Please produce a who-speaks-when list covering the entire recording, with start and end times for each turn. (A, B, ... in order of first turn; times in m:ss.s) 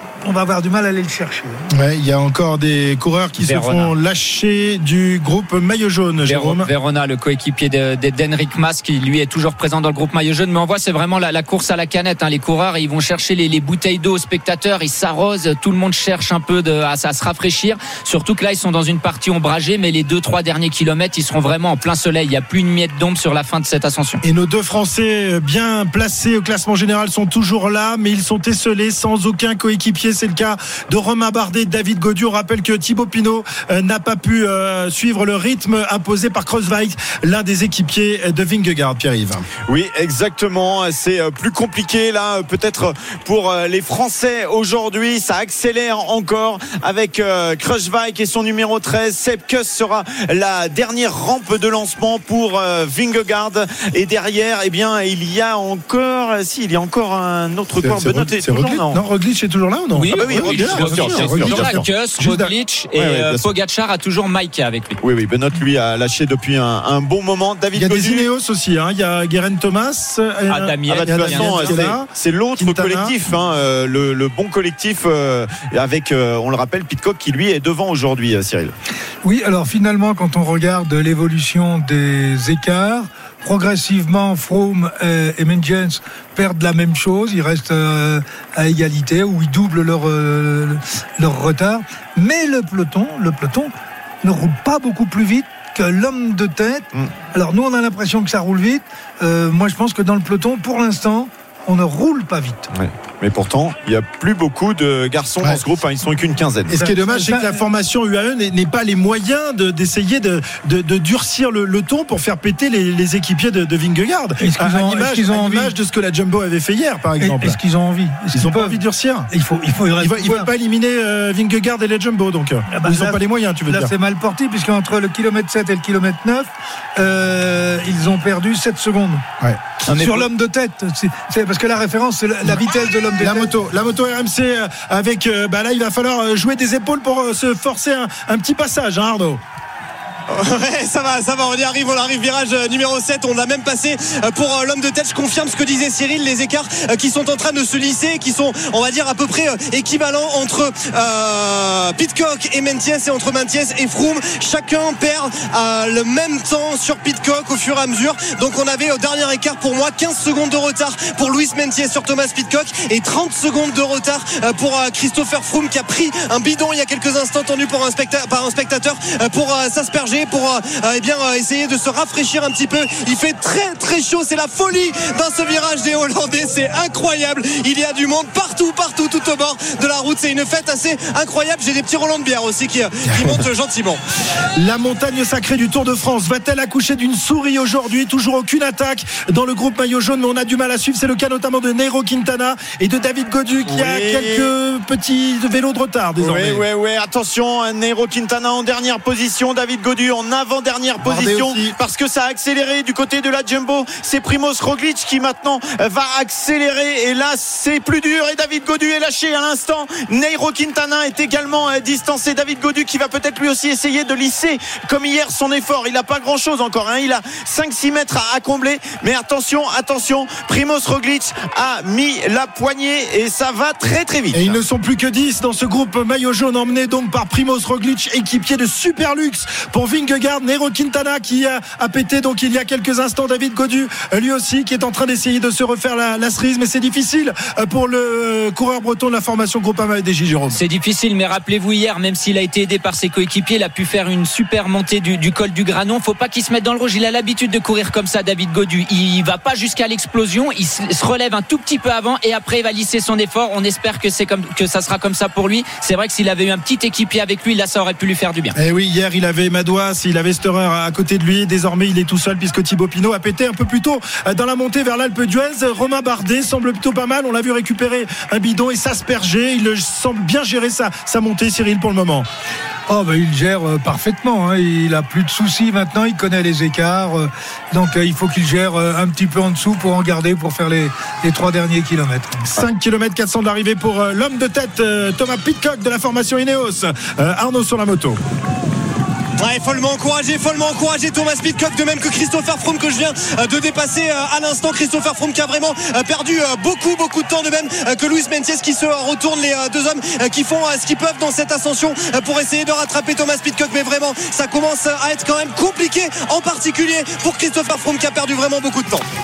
0:00.2-0:01.6 A
0:01.7-0:06.7 B
0:03.4-0:03.9 C
0:06.2-0:24.2 C
0:24.2-0:39.4 B
0:39.7-0:59.0 D
0:57.8-1:02.5 B
0:59.9-1:05.0 C
1:00.1-1:01.8 D
1:02.9-1:03.4 D
1:05.0-1:08.2 D
1:07.7-1:13.1 B
1:10.5-1:11.9 C
1:10.8-1:18.7 D
1:19.2-1:42.6 A
1:42.7-1:46.8 D
1:46.7-1:47.6 A
1:46.7-1:57.6 B
1:54.4-1:55.7 A
1:57.2-1:58.8 A
1:58.3-1:59.3 B
1:59.3-2:00.5 A
2:00.0-2:03.9 B
2:02.7-2:09.2 A
2:09.8-2:10.2 C
2:09.9-2:13.5 A
2:13.2-2:19.4 B
2:20.3-3:04.0 E
3:03.2-3:03.4 B
3:04.5-3:16.6 B
3:13.7-3:14.5 D
3:16.2-3:44.6 D
3:21.0-3:21.8 B
3:44.3-4:00.6 B
4:00.5-4:18.5 C
4:18.5-4:32.3 B
4:32.9-4:42.5 A
4:42.4-4:48.2 B
4:49.4-5:09.0 E